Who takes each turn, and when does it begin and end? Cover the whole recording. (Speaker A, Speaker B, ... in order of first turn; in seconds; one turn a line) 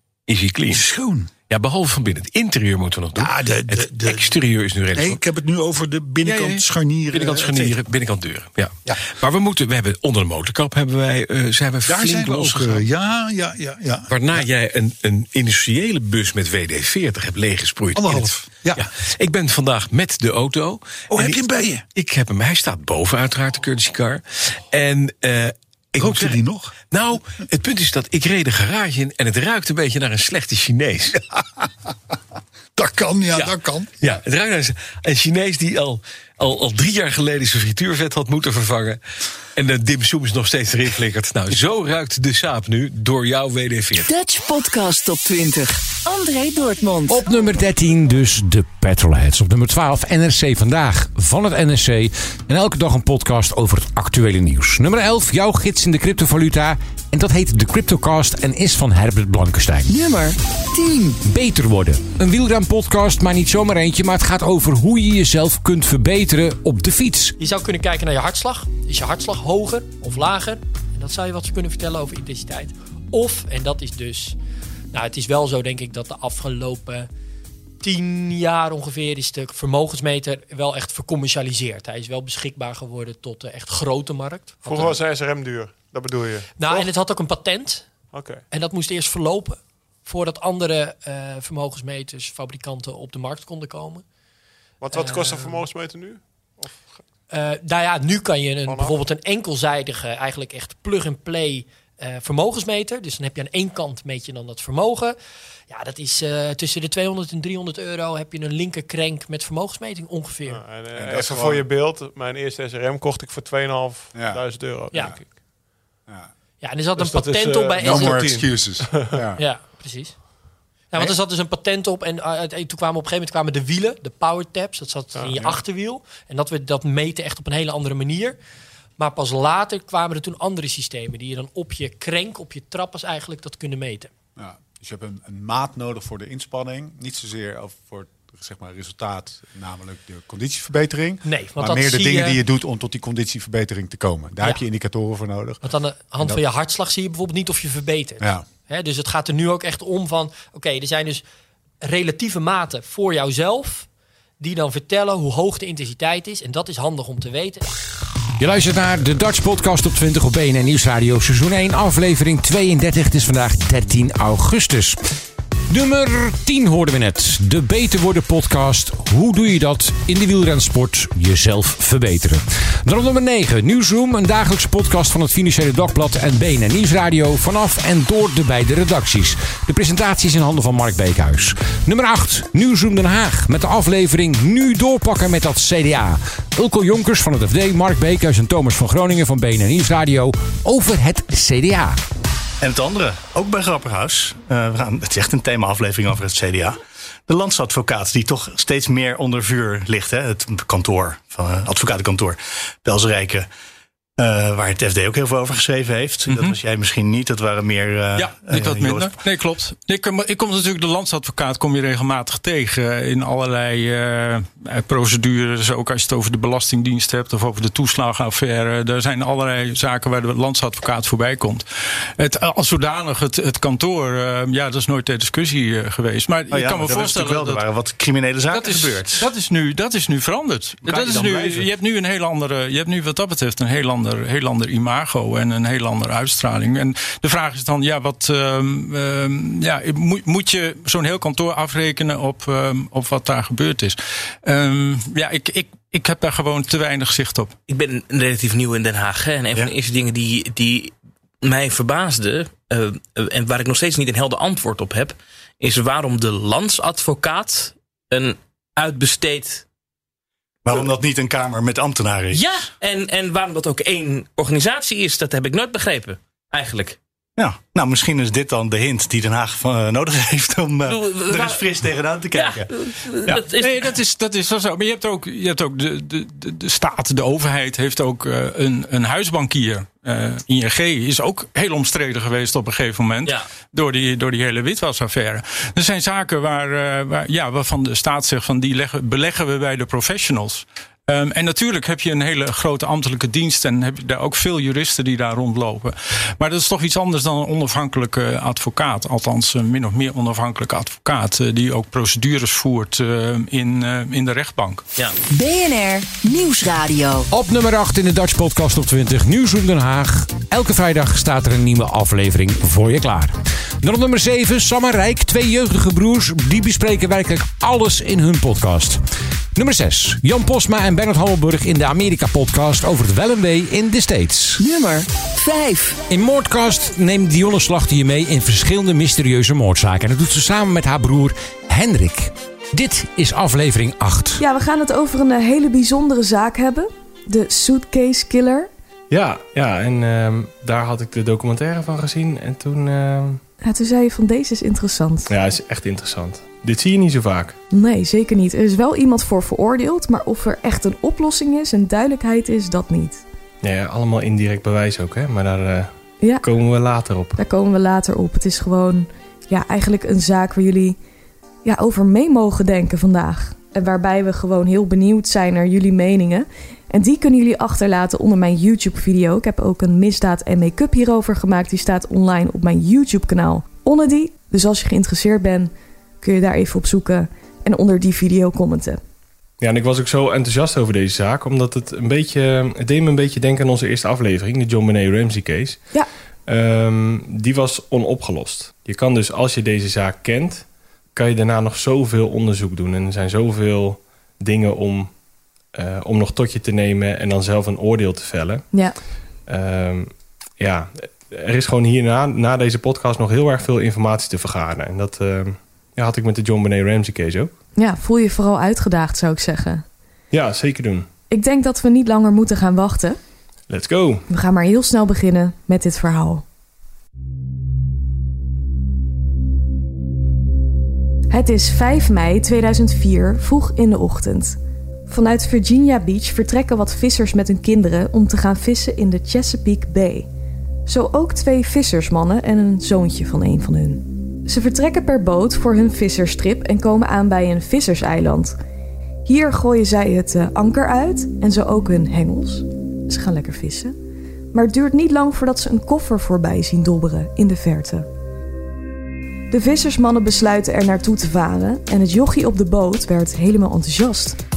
Speaker A: 0.3-0.8
Speaker B: 0.7-1.3
Speaker A: 1.5-5.2
Speaker B: 3.1-4.4
Speaker B: 4.9-7.8
Speaker A: 6.2-12.9
Speaker B: 11.9-14.4
Speaker A: 14.1-21.4
Speaker B: 17.9-18.9
Speaker B: 21.1-21.8
Speaker A: 21.9-31.2
Speaker B: 26.0-26.8
Speaker B: 32.8-33.9
Speaker A: 33.3-39.0
Speaker A: 39.6-44.1
Speaker C: 44.1-47.2
Speaker D: 47.1-59.9
Speaker C: 59.9-61.1
Speaker D: 61.2-67.3
Speaker E: 67.4-74.4
Speaker E: 74.9-77.1
Speaker E: 77.8-85.0
Speaker F: 84.6-86.9
Speaker E: 86.5-88.0
Speaker F: 88.1-88.4
Speaker E: 88.5-94.0
Speaker F: 94.8-97.0
Speaker E: 94.9-95.7
Speaker E: 97.3-105.2
Speaker F: 98.7-99.0
Speaker E: 105.7-110.8
Speaker F: 110.5-115.4
Speaker G: 110.8-111.7
Speaker G: 114.1-115.4
Speaker G: 116.0-116.3
Speaker E: 116.6-118.4
Speaker F: 117.0-119.2
Speaker G: 117.8-119.4
Speaker E: 119.4-120.3
Speaker E: 120.9-128.4
Speaker F: 125.1-125.6
Speaker E: 129.0-134.1
Speaker G: 134.4-145.6
Speaker E: 141.2-142.4
Speaker E: 144.4-144.7
Speaker E: 145.6-151.2
Speaker G: 148.2-148.5
Speaker E: 151.8-153.9
Speaker E: 154.4-157.7
Speaker D: 158.4-165.0
Speaker D: 165.7-192.0
Speaker H: 192.6-203.5
Speaker H: 204.2-209.2
Speaker I: 206.3-206.6
Speaker I: 208.2-221.7
Speaker I: 222.2-227.6
Speaker H: 226.5-229.3
Speaker I: 228.5-247.6
Speaker H: 230.8-231.7
Speaker J: 247.7-259.6
Speaker H: 260.6-262.5
Speaker J: 262.3-267.0
Speaker H: 267.4-272.7
Speaker J: 270.9-271.6
Speaker J: 272.4-273.9
Speaker I: 273.5-304.8
Speaker C: 305.4-307.2
Speaker D: 307.3-319.0
Speaker D: 319.6-324.6
Speaker C: 325.5-325.9
Speaker D: 326.1-334.4
Speaker K: 334.4-338.7
Speaker L: 339.1-343.4
Speaker K: 343.6-345.3
Speaker L: 345.3-347.6
Speaker K: 347.7-353.2
Speaker L: 353.6-357.4
Speaker K: 356.2-356.5
Speaker K: 357.4-361.0
Speaker K: 361.6-379.0
Speaker L: 379.6-385.8
Speaker L: 386.5-395.2
Speaker L: 395.7-398.7
Speaker L: 399.5-407.5
Speaker K: 407.8-409.9
Speaker L: 410.3-411.1
Speaker K: 411.3-413.2
Speaker L: 413.7-414.2
Speaker K: 414.3-416.4
Speaker K: 421.3-430.3
Speaker K: 430.9-438.6
Speaker K: 439.3-443.9
Speaker K: 444.5-448.1
Speaker K: 449.5-454.4